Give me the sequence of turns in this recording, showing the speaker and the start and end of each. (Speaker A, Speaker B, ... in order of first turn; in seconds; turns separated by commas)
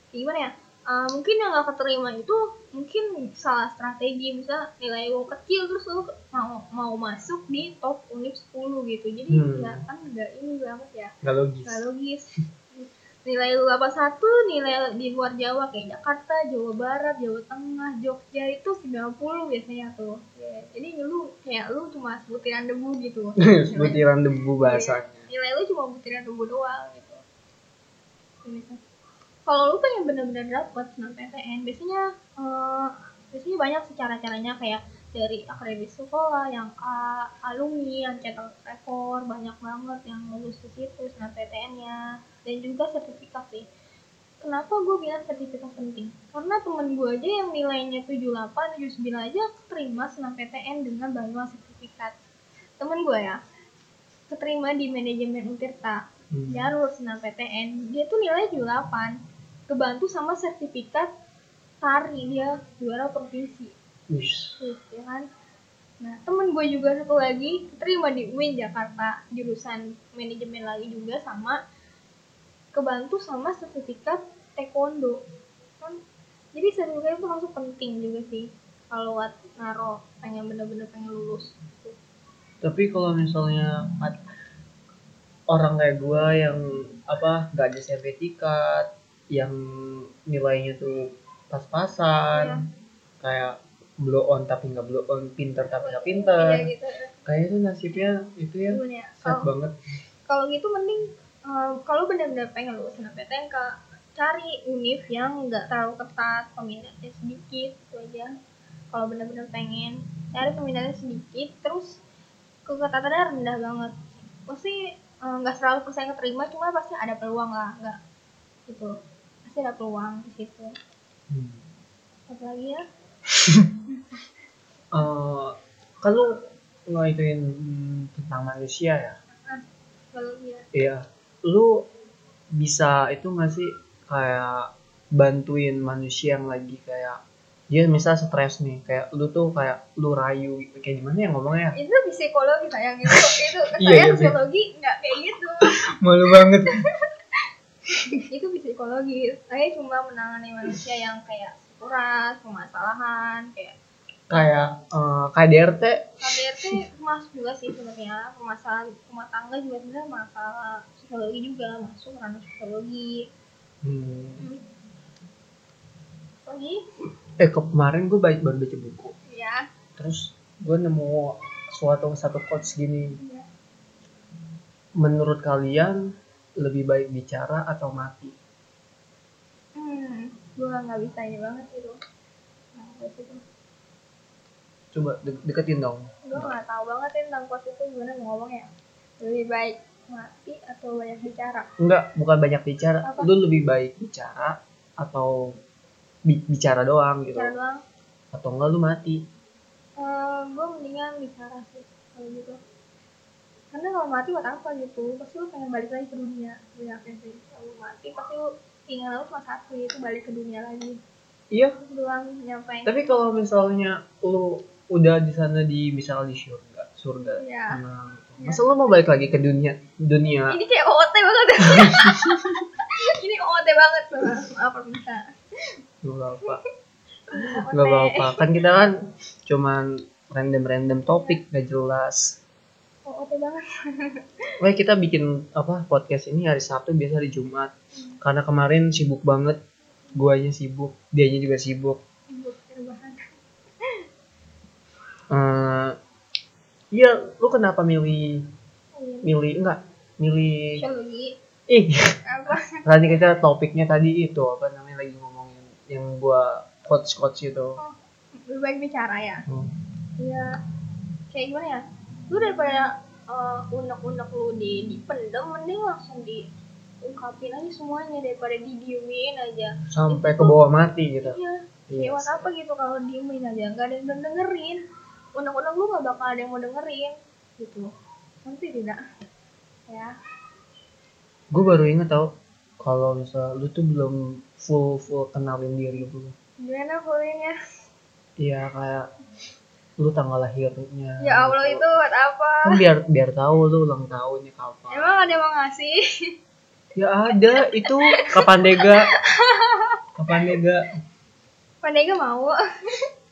Speaker A: 0.1-11.1, Speaker B: 9.3-9.8, Speaker B: 11.2-11.8, Speaker A: 11.7-24.0, Speaker B: 23.4-25.3, Speaker A: 24.6-27.2, Speaker A: 28.4-28.8, Speaker A: 29.5-43.7, Speaker A: 44.4-52.1, Speaker A: 52.8-53.4, Speaker A: 54.3-59.2, Speaker B: 56.3-56.7, Speaker A: 59.7-61.1, Speaker A: 61.8-63.7, Speaker B: 64.1-64.6, Speaker A: 64.6-65.3, Speaker A: 66.0-71.6, Speaker A: 72.7-75.2, Speaker A: 76.5-82.0, Speaker B: 82.6-84.2, Speaker B: 85.5-92.6, Speaker A: 92.3-92.6, Speaker B: 93.2-96.7, Speaker A: 95.8-97.2, Speaker B: 97.3-99.7, Speaker A: 98.7-99.5, Speaker A: 100.3-108.3, Speaker A: 108.9-112.0, Speaker A: 112.7-118.0, Speaker A: 118.7-118.9, Speaker A: 119.5-120.8, Speaker B: 121.3-121.6, Speaker A: 122.3-122.8, Speaker B: 123.3-123.7, Speaker B: 124.9-129.2, Speaker A: 129.4-130.7, Speaker B: 130.7-131.8, Speaker B: 132.5-137.2, Speaker B: 137.7-141.8, Speaker A: 141.8-145.8, Speaker B: 143.1-144.3, Speaker B: 145.6-146.8, Speaker A: 146.5-146.8, Speaker A: 148.3-153.8, Speaker B: 154.3-156.8, Speaker A: 156.2-163.3, Speaker B: 163.8-164.5, Speaker A: 166.5-166.8, Speaker B: 167.4-169.1, Speaker A: 169.3-169.7, Speaker B: 170.0-173.2, Speaker A: 173.2-173.5, Speaker B: 175.0-176.0, Speaker B: 176.6-178.4, Speaker A: 179.8-182.0, Speaker A: 182.8-183.4, Speaker B: 184.9-186.6, Speaker A: 186.2-188.7, Speaker A: 189.2-191.7, Speaker B: 191.8-195.5, Speaker A: 193.0-193.3, Speaker B: 196.3-197.6, Speaker A: 197.3-197.8, Speaker B: 198.3-199.2, Speaker A: 200.0-202.6, Speaker A: 203.7-211.0, Speaker B: 211.5-211.8, Speaker A: 211.8-213.0, Speaker B: 212.8-220.6, Speaker A: 217.4-217.8, Speaker A: 220.5-225.3, Speaker B: 221.7-222.6, Speaker B: 226.0-226.6, Speaker A: 227.3-228.5, Speaker B: 227.3-229.0, Speaker B: 229.5-232.4, Speaker A: 233.1-234.5, Speaker B: 234.6-239.6, Speaker A: 237.9-238.2, Speaker B: 240.2-242.0, Speaker A: 242.3-243.3, Speaker B: 245.3-246.0, Speaker B: 246.9-248.5, Speaker A: 249.0-249.3, Speaker B: 249.2-250.8, Speaker A: 250.8-251.3, Speaker B: 251.7-257.8, Speaker A: 252.2-252.8, Speaker A: 257.8-259.5, Speaker A: 260.2-260.6, Speaker A: 261.3-266.5, Speaker A: 267.0-270.6, Speaker B: 269.9-271.4, Speaker A: 271.2-274.8, Speaker B: 271.9-272.5, Speaker A: 275.4-277.9, Speaker A: 278.4-279.0, Speaker A: 279.9-280.1, Speaker B: 281.5-286.4, Speaker A: 286.6-287.6, Speaker B: 288.4-289.1, Speaker B: 290.0-291.8, Speaker A: 291.2-292.8, Speaker B: 292.6-295.4, Speaker A: 294.9-296.3, Speaker B: 297.0-299.1, Speaker A: 297.3-300.4, Speaker B: 300.2-300.9, Speaker A: 301.8-303.1